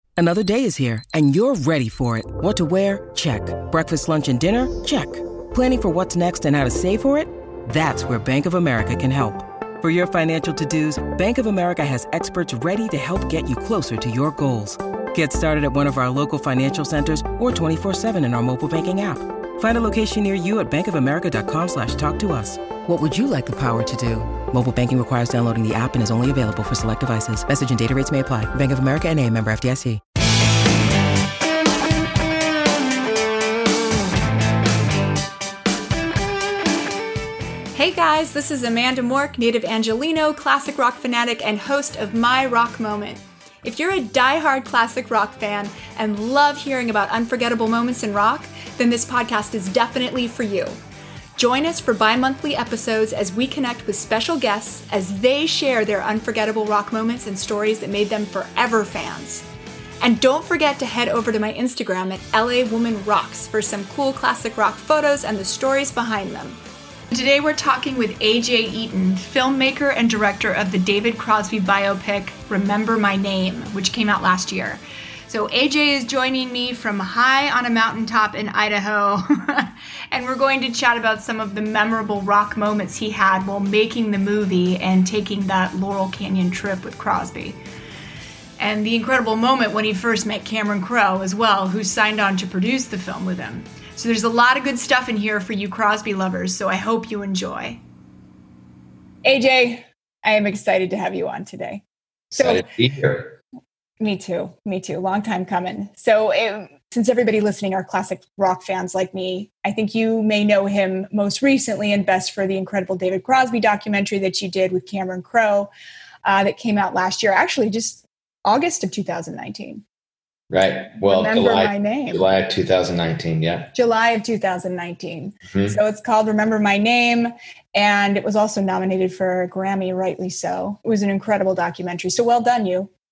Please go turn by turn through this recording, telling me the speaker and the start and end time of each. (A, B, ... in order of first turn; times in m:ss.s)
0:00.2-0:30.0 A
0:37.7-0:50.8 B
0:51.4-0:59.4 B
1:00.0-1:27.6 B
1:28.6-1:37.8 B
1:39.2-1:41.8 B
1:42.3-1:43.4 C
1:42.4-1:42.7 B
1:44.0-1:55.7 B
1:56.2-1:59.8 B
2:00.5-2:03.7 C
2:01.0-2:02.2 B
2:03.7-2:12.9 B
2:05.5-2:05.8 C